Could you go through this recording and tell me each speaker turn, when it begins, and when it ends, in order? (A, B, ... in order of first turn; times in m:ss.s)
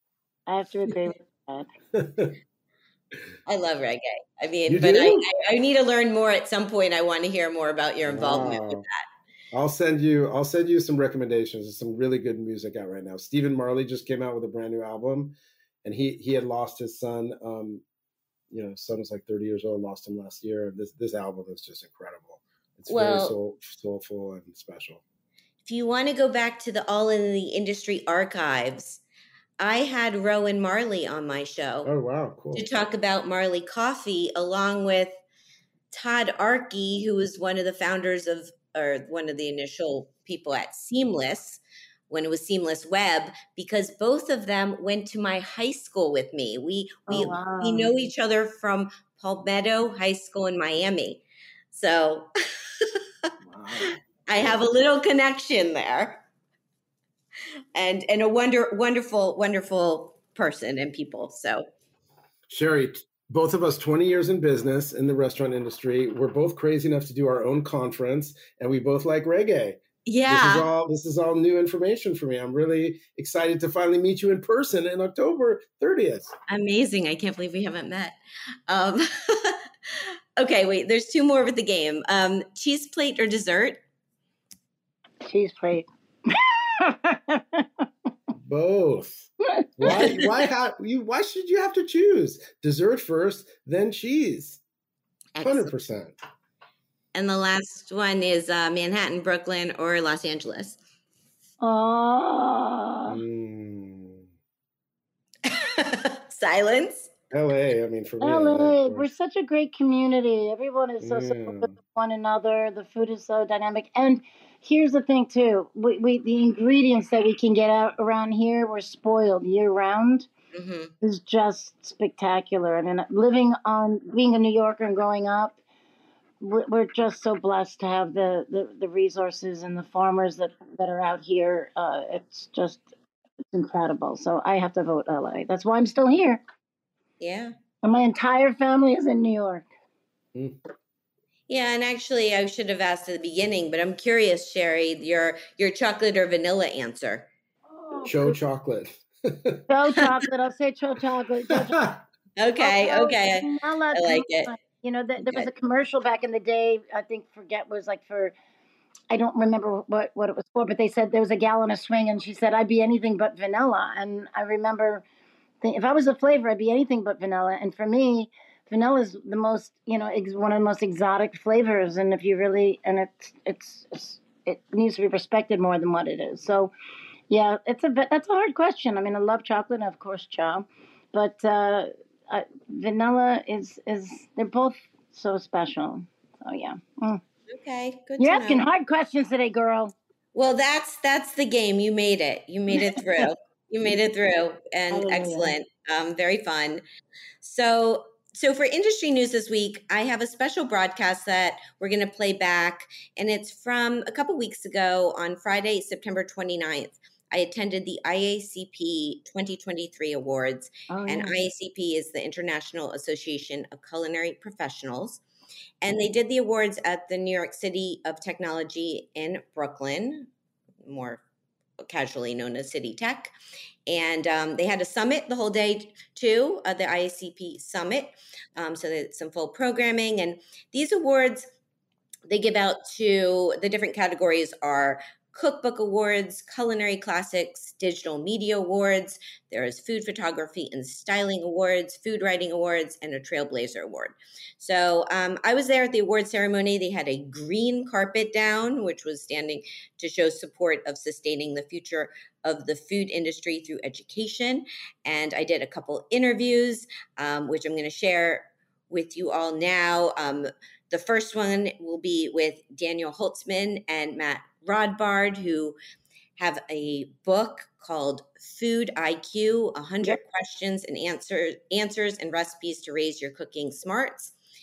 0:00.5-0:01.7 A
0:02.0-0:02.3 B
0:03.5-0:09.1 C
0:04.7-0:05.3 B
0:08.1-0:08.8 B
0:09.5-0:17.8 B
0:18.5-0:25.0 B
0:22.9-0:23.4 C
0:25.6-0:29.0 C
0:29.6-0:31.9 C
0:31.8-0:32.7 B
0:32.5-0:35.2 C
0:35.9-0:52.3 C
0:47.1-0:47.9 A
0:53.4-0:54.6 B
0:54.3-0:56.2 C
0:57.8-1:01.7 C
1:02.5-1:16.3 B
1:10.1-1:10.7 C
1:16.5-1:18.2 C
1:18.7-1:19.6 C
1:20.4-1:23.8 C
1:25.2-1:27.8 A
1:28.4-1:34.6 B
1:29.6-1:30.3 A
1:35.4-1:35.7 C
1:35.4-1:36.2 B
1:37.1-1:40.8 C
1:41.6-1:43.2 A
1:43.1-1:44.3 B
1:45.4-1:47.1 C
1:47.3-1:49.1 B
1:48.2-2:00.3 A
1:51.0-1:51.7 B
2:00.5-2:00.9 C
2:01.0-2:05.6 A
2:06.4-2:12.9 A
2:13.5-2:16.4 A
2:17.2-2:17.5 C
2:17.8-2:19.7 A
2:21.5-2:27.3 C
2:27.7-2:28.4 A
2:28.0-2:29.7 B
2:29.7-2:31.8 A
2:31.5-2:32.0 B
2:32.4-2:34.5 C
2:32.6-2:38.3 A
2:35.2-2:35.5 C
2:39.1-2:45.0 A
2:45.6-2:56.7 A
2:57.3-3:07.2 A
3:07.5-3:08.6 C
3:08.2-3:09.9 A
3:10.4-3:16.8 C
3:14.9-3:15.6 A
3:17.4-3:35.2 C
3:30.9-3:31.4 A
3:35.8-3:40.3 C
3:40.8-3:41.2 C
3:41.8-3:43.3 C
3:43.9-3:51.5 C
3:52.3-4:25.8 C
4:26.4-4:34.3 C